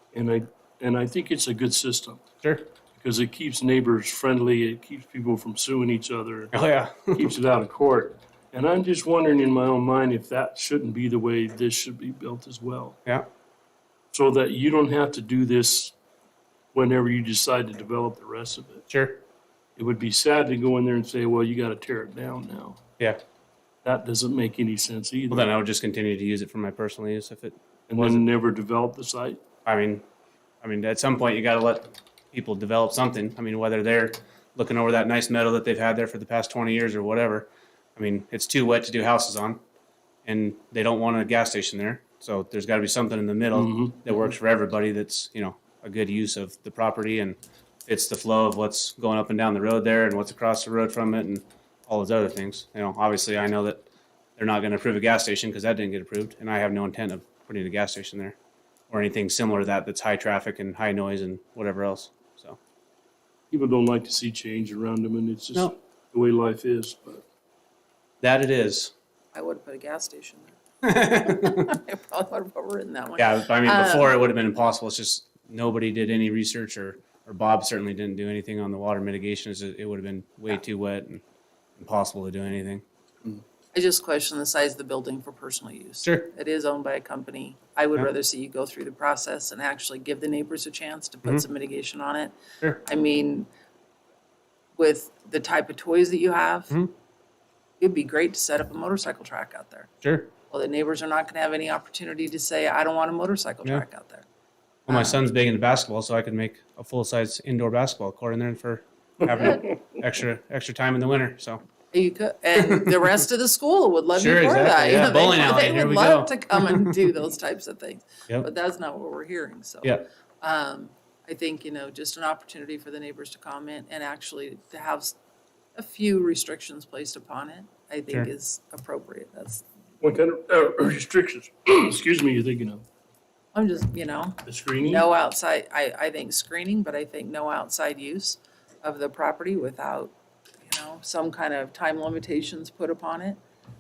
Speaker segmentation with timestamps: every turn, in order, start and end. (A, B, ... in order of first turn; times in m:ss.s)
0:00.1-0:02.3 A
0:03.0-0:06.5 A
0:06.5-0:07.3 B
0:07.1-0:13.0 A
0:14.1-0:15.9 A
0:16.7-0:18.9 A
0:18.9-0:19.2 B
0:19.8-0:22.8 A
0:23.8-0:25.5 A
0:25.3-0:28.2 B
0:27.9-0:29.4 A
0:29.6-0:30.0 B
0:30.6-0:39.6 B
0:40.2-0:53.8 B
0:43.5-0:44.1 A
0:54.4-0:58.4 B
0:58.9-1:02.6 B
1:03.5-1:07.2 A
1:08.2-1:08.9 B
1:09.3-1:10.6 C
1:10.8-1:11.7 B
1:11.3-1:14.2 C
1:13.2-1:21.2 B
1:21.8-1:22.8 B
1:23.7-1:33.5 C
1:26.0-1:26.3 B
1:34.8-1:36.8 C
1:37.8-1:39.9 C
1:40.0-1:40.3 B
1:40.5-1:44.2 C
1:44.9-1:51.6 B
1:44.9-1:45.2 C
1:51.9-2:05.2 C
1:52.7-1:52.9 B
1:54.2-1:56.9 B
2:05.8-2:09.6 C
2:10.0-2:12.8 A
2:13.5-2:23.4 C
2:14.4-2:15.1 A